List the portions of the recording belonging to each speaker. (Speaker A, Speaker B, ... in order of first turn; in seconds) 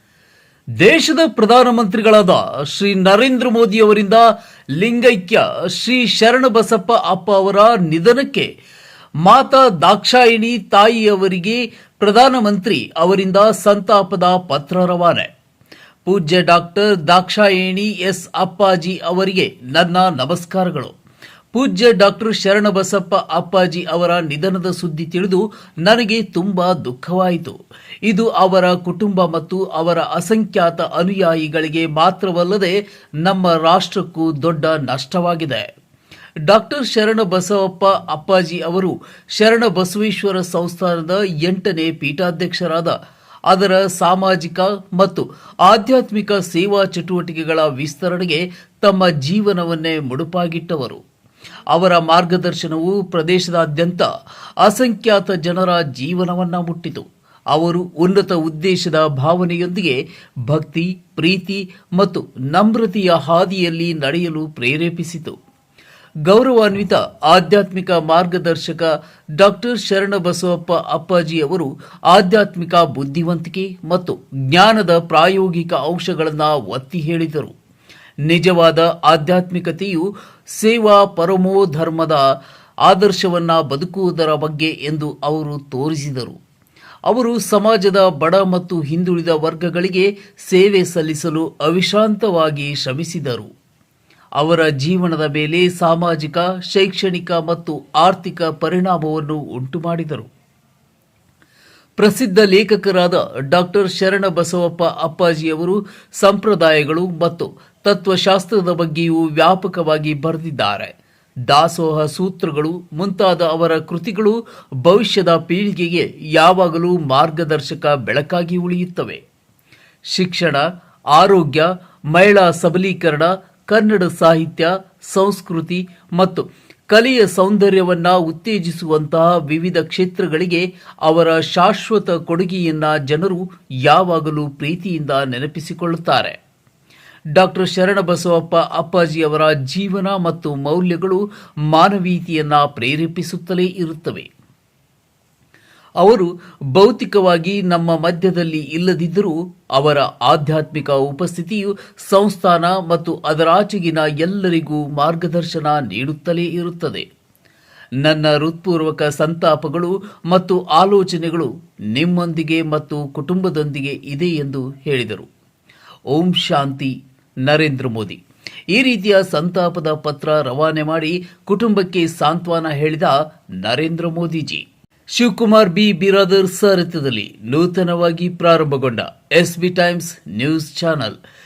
Speaker A: 0.8-8.5, 9.2-15.3, 16.1-20.9, 21.5-35.7, 36.5-43.0, 43.5-51.0, 51.7-54.1, 54.6-65.4, 66.3-77.5, 78.3-82.2, 82.9-86.4, 87.1-93.5, 94.4-100.3, 102.0-110.9, 111.5-119.2, 120.1-136.4, 137.4-144.3, 146.0-157.1, 158.0-165.3, 166.1-168.2, 168.7-181.2